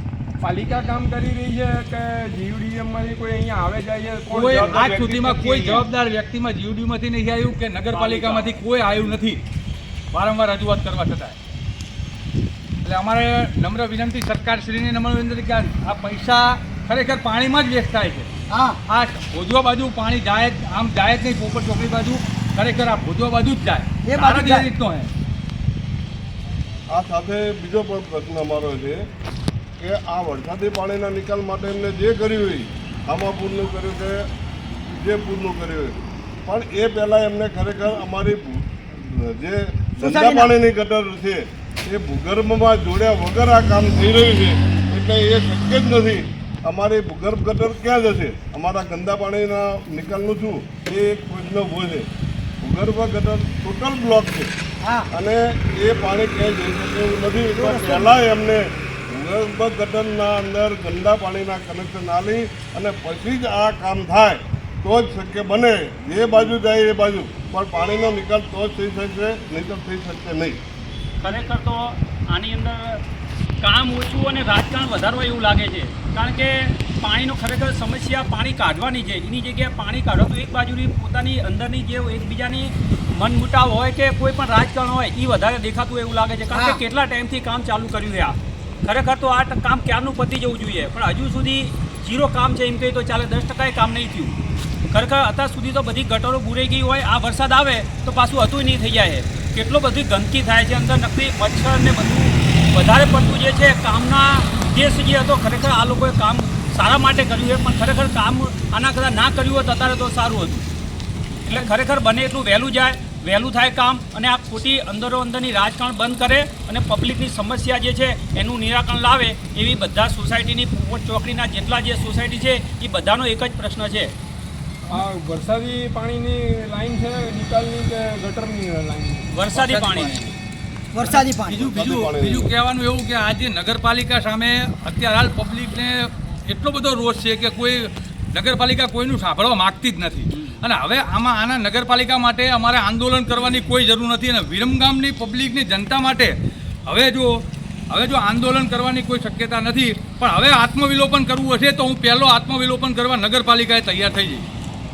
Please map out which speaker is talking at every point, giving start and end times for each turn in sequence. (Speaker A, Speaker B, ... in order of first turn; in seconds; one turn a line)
Speaker A: 0.4-5.8
Speaker B: 4.3-9.4
Speaker C: 7.9-8.6
Speaker B: 10.1-11.4
Speaker B: 12.8-18.3
Speaker D: 18.5-18.8
Speaker B: 18.9-25.1
Speaker D: 24.0-24.7
Speaker E: 26.9-29.1
Speaker E: 29.8-34.3
Speaker E: 34.9-52.1
Speaker D: 40.0-40.5
Speaker E: 52.6-54.5
Speaker D: 54.8-55.1
Speaker E: 55.1-70.6
Speaker D: 57.5-58.1
Speaker C: 71.2-73.0
Speaker C: 73.6-94.4
Speaker D: 86.5-86.8
Speaker C: 94.9-110.7
Speaker C: 111.5-124.1
Speaker A: 124.9-129.3
Speaker C: 129.3-130.3
Speaker D: 129.5-130.1
Speaker D: 130.9-131.7
Speaker B: 131.0-154.4
Speaker E: 131.6-132.5
Speaker C: 140.3-140.6